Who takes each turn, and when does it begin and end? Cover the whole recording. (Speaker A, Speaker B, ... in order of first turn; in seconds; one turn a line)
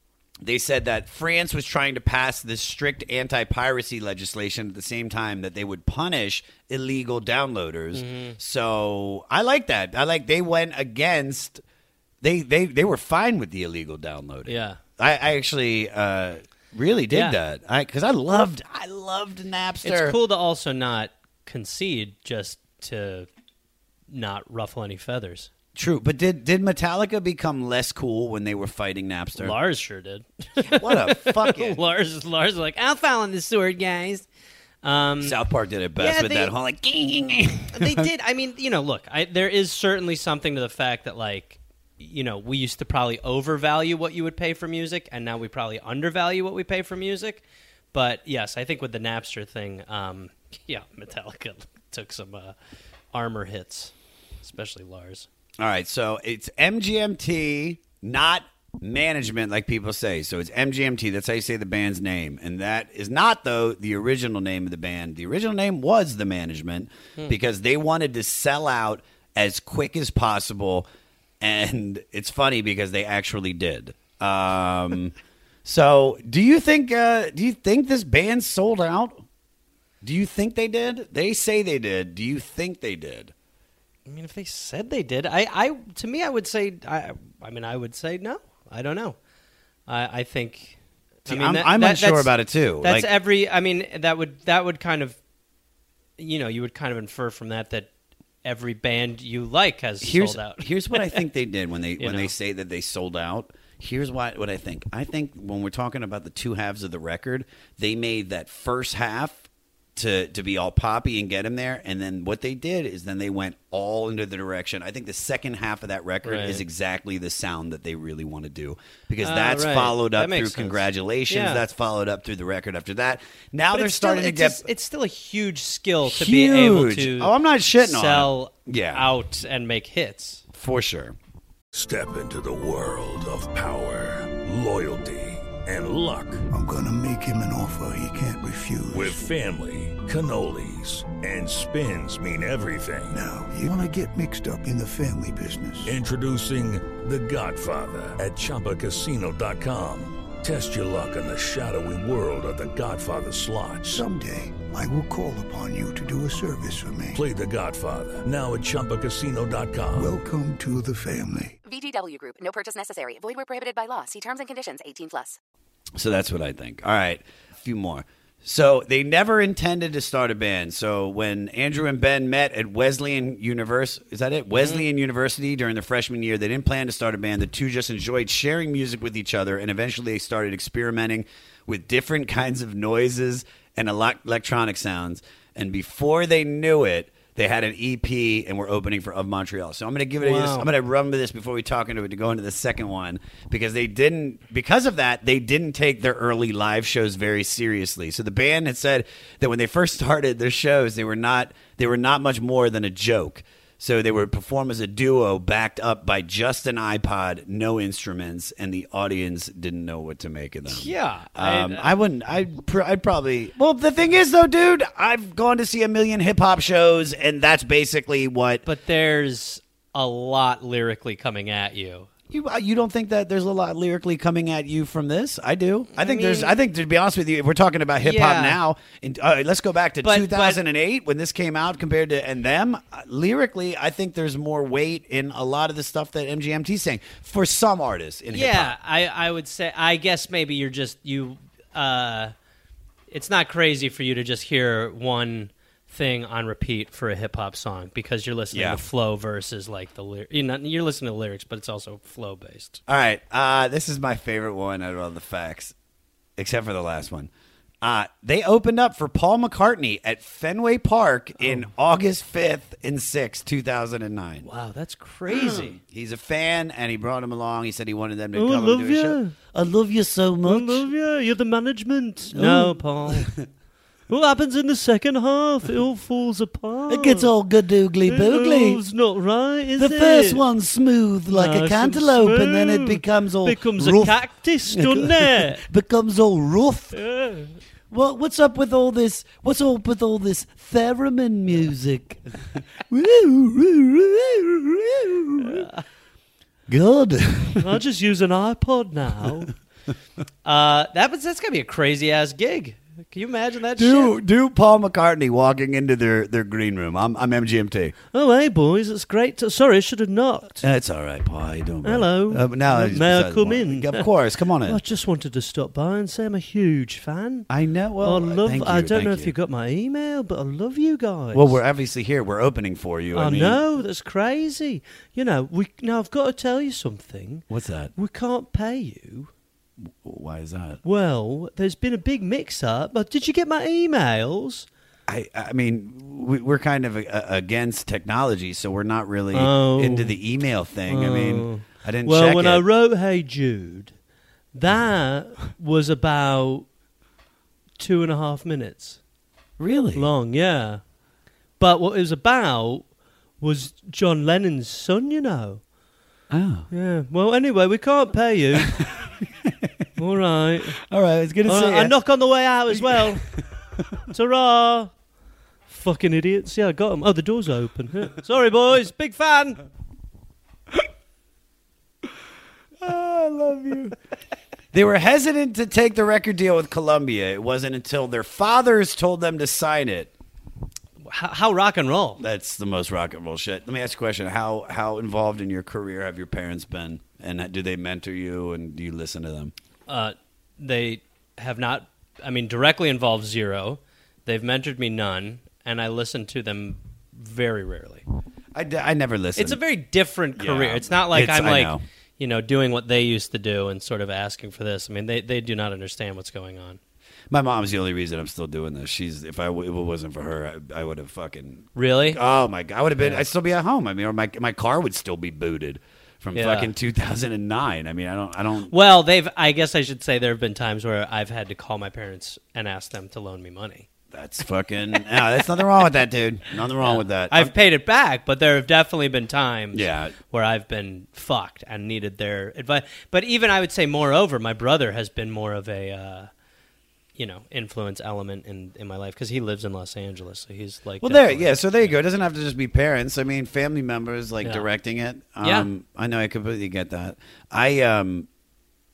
Speaker A: 0.4-11.6
Speaker B: 7.9-8.4
Speaker A: 12.2-20.1
Speaker B: 14.5-14.8
Speaker B: 17.1-17.4
Speaker B: 19.8-23.3
Speaker B: 24.1-25.5
Speaker A: 25.8-29.5
Speaker B: 29.4-34.3
Speaker A: 30.7-31.8
Speaker B: 34.8-35.4
Speaker A: 35.2-38.1
Speaker B: 36.0-36.5
Speaker B: 37.7-52.5
Speaker B: 53.1-55.3
Speaker A: 55.6-70.9
Speaker A: 71.4-75.1
Speaker A: 75.6-79.2
Speaker A: 80.0-83.3
Speaker B: 84.1-89.2
Speaker B: 89.9-95.2
Speaker A: 91.3-93.1
Speaker B: 96.2-97.9
Speaker B: 98.4-101.2
Speaker A: 100.0-109.4
Speaker B: 102.0-102.3
Speaker A: 110.0-124.6
Speaker B: 116.2-116.6
Speaker B: 119.2-121.6
Speaker B: 123.7-130.4
Speaker A: 126.0-129.1
Speaker A: 130.5-131.2
Speaker C: 131.7-136.4
Speaker D: 136.5-139.2
Speaker C: 138.9-143.2
Speaker D: 143.1-145.9
Speaker C: 145.8-154.0
Speaker D: 153.8-157.2
Speaker C: 157.1-160.1
Speaker D: 159.9-161.6
Speaker E: 161.6-165.4
Speaker A: 166.0-218.6
Speaker B: 174.5-174.8
Speaker B: 190.2-190.7
Speaker B: 210.7-211.9
Speaker B: 218.6-222.1
Speaker A: 222.3-238.7
Speaker B: 225.9-226.5
Speaker B: 228.0-228.6
Speaker B: 230.0-230.6
Speaker B: 238.3-242.3
Speaker B: 243.1-252.8
Speaker A: 248.5-248.8
Speaker A: 252.9-255.7
Speaker A: 256.4-257.3
Speaker A: 257.8-264.5
Speaker B: 261.4-261.7
Speaker B: 264.4-265.8
Speaker A: 265.3-270.9
Speaker B: 268.3-269.3
Speaker B: 270.4-273.3
Speaker A: 272.3-273.4
Speaker B: 274.1-277.3
Speaker A: 276.9-278.8
Speaker B: 278.1-280.4
Speaker A: 279.8-287.0
Speaker B: 281.3-285.6
Speaker B: 286.9-287.6
Speaker A: 287.9-295.7
Speaker B: 295.4-295.8
Speaker A: 296.7-297.8
Speaker B: 297.6-299.5
Speaker B: 300.4-304.1
Speaker A: 303.8-307.9
Speaker B: 308.1-310.6
Speaker A: 310.6-314.8
Speaker B: 311.8-314.1
Speaker B: 314.6-317.5
Speaker A: 317.5-319.3
Speaker B: 318.0-321.6
Speaker A: 321.3-323.6
Speaker B: 323.1-329.3
Speaker A: 327.5-327.9
Speaker A: 329.9-330.8
Speaker B: 330.8-334.7
Speaker A: 335.1-342.6
Speaker B: 339.3-340.2
Speaker B: 340.9-343.9
Speaker B: 344.5-346.7
Speaker B: 347.8-349.0
Speaker A: 349.6-350.1
Speaker B: 349.9-350.8
Speaker B: 351.6-355.6
Speaker A: 356.3-356.7
Speaker B: 356.7-358.8
Speaker B: 360.0-360.8
Speaker A: 360.9-361.9
Speaker B: 361.4-363.2
Speaker A: 362.7-363.3
Speaker B: 364.1-364.9
Speaker B: 365.7-369.6
Speaker A: 372.8-373.9
Speaker A: 374.7-380.1
Speaker B: 381.0-382.2
Speaker A: 382.2-389.5
Speaker B: 389.9-398.0
Speaker A: 398.5-399.6
Speaker B: 399.4-406.8
Speaker A: 400.4-401.8
Speaker A: 407.3-418.7
Speaker B: 411.7-412.2
Speaker B: 413.0-413.3
Speaker B: 416.3-416.7
Speaker B: 418.7-423.9
Speaker A: 424.1-427.5
Speaker B: 426.8-436.3
Speaker A: 429.7-430.1
Speaker B: 437.2-441.9
Speaker A: 441.0-448.3
Speaker B: 444.4-444.7
Speaker B: 445.4-445.7